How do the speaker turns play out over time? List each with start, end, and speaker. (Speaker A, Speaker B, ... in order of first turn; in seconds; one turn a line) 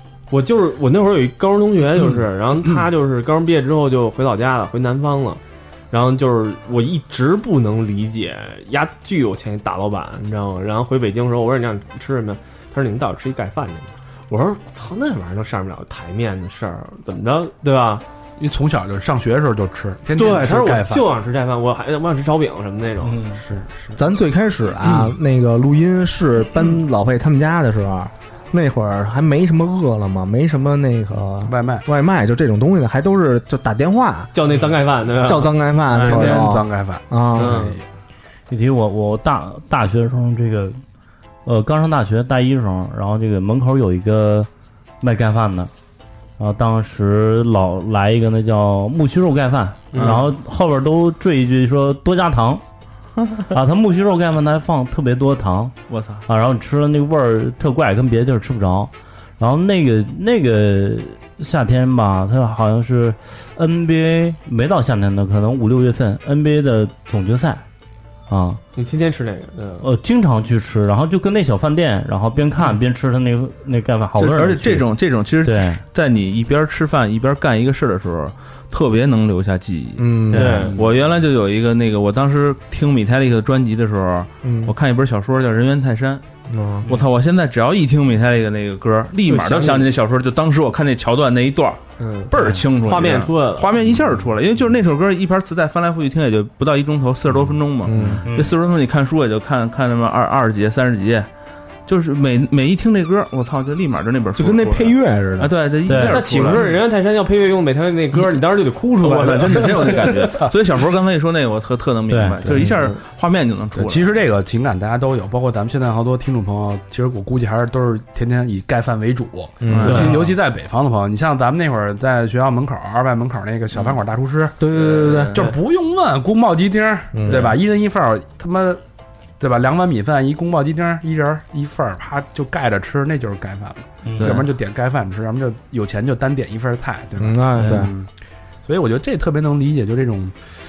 Speaker A: 0.3-18.0
Speaker B: 18.4-21.1
Speaker A: 20.1-24.0
Speaker C: 23.9-34.3
Speaker B: 24.8-25.1
Speaker B: 31.4-31.8
Speaker A: 34.3-36.5
Speaker C: 35.2-37.6
Speaker B: 35.9-37.8
Speaker A: 37.3-37.8
Speaker D: 38.5-40.8
Speaker D: 41.4-44.5
Speaker D: 45.0-45.7
Speaker D: 46.4-52.6
Speaker A: 49.9-50.2
Speaker E: 50.0-50.2
Speaker D: 53.5-55.7
Speaker E: 55.9-56.2
Speaker D: 56.3-67.6
Speaker D: 68.3-68.6
Speaker A: 68.8-69.9
Speaker D: 69.8-74.8
Speaker E: 74.2-86.2
Speaker D: 75.4-75.8
Speaker C: 80.0-80.7
Speaker D: 80.3-80.7
Speaker A: 80.3-80.8
Speaker C: 84.4-84.7
Speaker C: 86.5-86.8
Speaker E: 86.9-101.3
Speaker A: 89.2-89.8
Speaker A: 92.0-93.7
Speaker D: 92.3-92.6
Speaker B: 93.9-94.2
Speaker C: 97.8-98.2
Speaker D: 98.2-98.5
Speaker E: 101.9-106.7
Speaker C: 104.3-105.5
Speaker D: 105.9-106.2
Speaker A: 106.0-110.1
Speaker E: 109.0-114.1
Speaker D: 112.1-112.4
Speaker C: 112.5-112.9
Speaker B: 113.7-128.8
Speaker C: 119.6-120.1
Speaker E: 119.7-120.3
Speaker A: 119.8-120.1
Speaker C: 124.6-125.4
Speaker A: 125.0-125.5
Speaker C: 127.1-127.6
Speaker B: 129.4-138.1
Speaker D: 134.1-134.4
Speaker C: 137.2-137.9
Speaker B: 138.6-140.4